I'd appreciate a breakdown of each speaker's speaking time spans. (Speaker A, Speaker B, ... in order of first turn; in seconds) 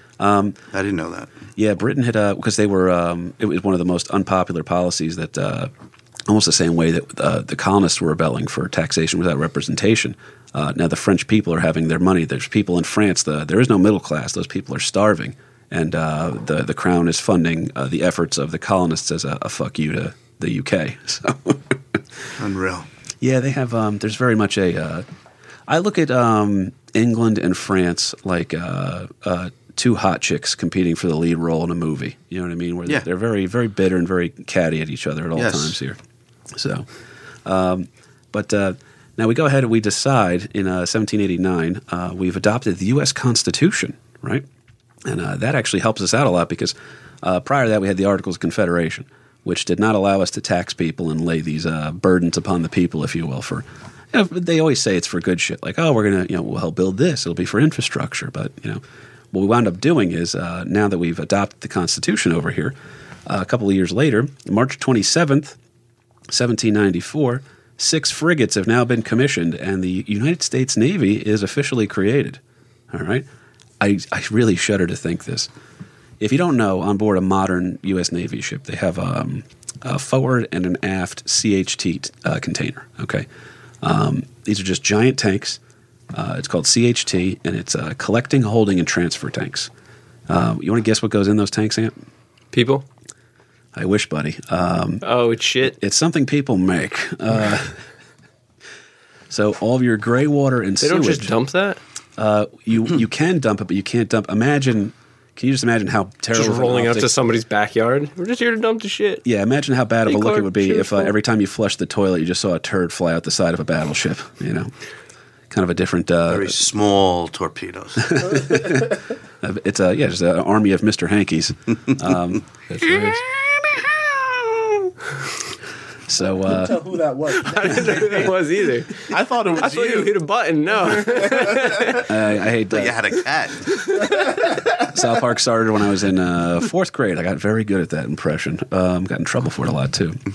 Speaker A: 0.2-0.6, 1.6-5.7, 6.3-22.0, 23.2-25.1, 25.7-36.0, 36.5-36.9, 37.4-44.5, 45.0-58.8, 59.3-62.7, 63.2-65.6, 66.3-72.4, 72.9-73.3, 73.8-75.5, 76.2-83.3, 83.8-85.6, 86.1-89.7, 90.3-91.9, 93.7-95.0, 95.7-97.8, 99.3-101.3, 102.2-107.1, 109.2-114.7, 115.5-116.6, 118.1-122.4, 123.3-123.8, 126.1-126.8, 132.0-133.0, 134.9-140.2
Speaker B: 0.7-1.3, 22.4-22.9, 35.4-35.8, 116.3-118.5, 132.7-133.7
Speaker C: 92.5-92.8, 95.0-95.8, 100.8-101.8, 106.3-109.2, 110.0-111.1, 122.7-123.2, 127.4-132.1, 133.7-134.2
Speaker D: 126.4-128.3, 129.1-130.2, 131.1-131.8